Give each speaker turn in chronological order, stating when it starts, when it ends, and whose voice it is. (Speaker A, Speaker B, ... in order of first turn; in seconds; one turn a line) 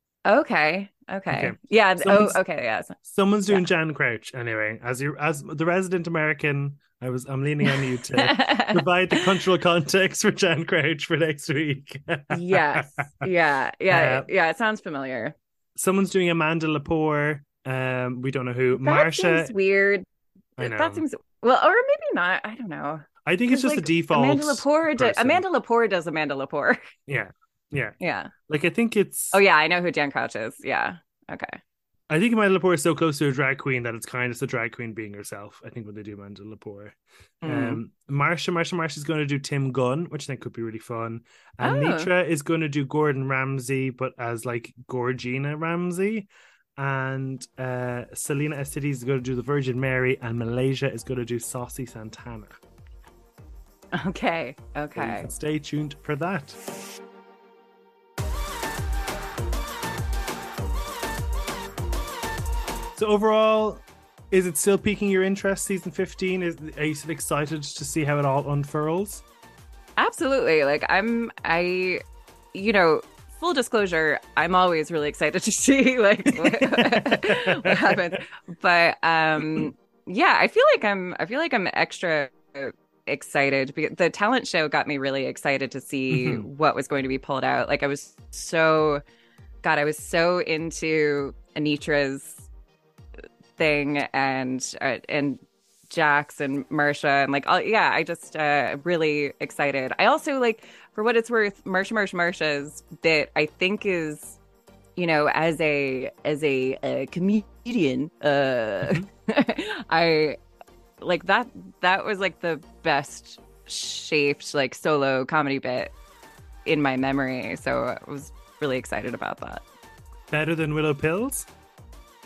Speaker A: 0.2-3.0
Speaker B: 1.3-2.4
Speaker B: 3.0-13.3
Speaker A: 7.7-9.4
Speaker A: 12.3-15.3
Speaker B: 13.9-14.3
Speaker B: 15.8-19.5
Speaker A: 18.8-20.1
Speaker B: 20.6-21.0
Speaker A: 20.6-26.8
Speaker B: 23.2-25.4
Speaker B: 27.1-29.4
Speaker A: 28.0-28.3
Speaker A: 29.3-31.6
Speaker B: 32.1-52.6
Speaker A: 37.4-37.8
Speaker A: 41.6-42.1
Speaker A: 53.9-55.3
Speaker B: 54.9-56.6
Speaker B: 63.0-69.2
Speaker A: 70.0-72.0
Speaker A: 72.5-89.0
Speaker B: 76.3-78.2
Speaker B: 86.1-86.5
Speaker A: 89.6-92.5
Speaker A: 93.6-104.4
Speaker A: 105.0-110.4
Speaker A: 111.0-115.9
Speaker A: 116.6-119.6
Speaker B: 120.3-121.5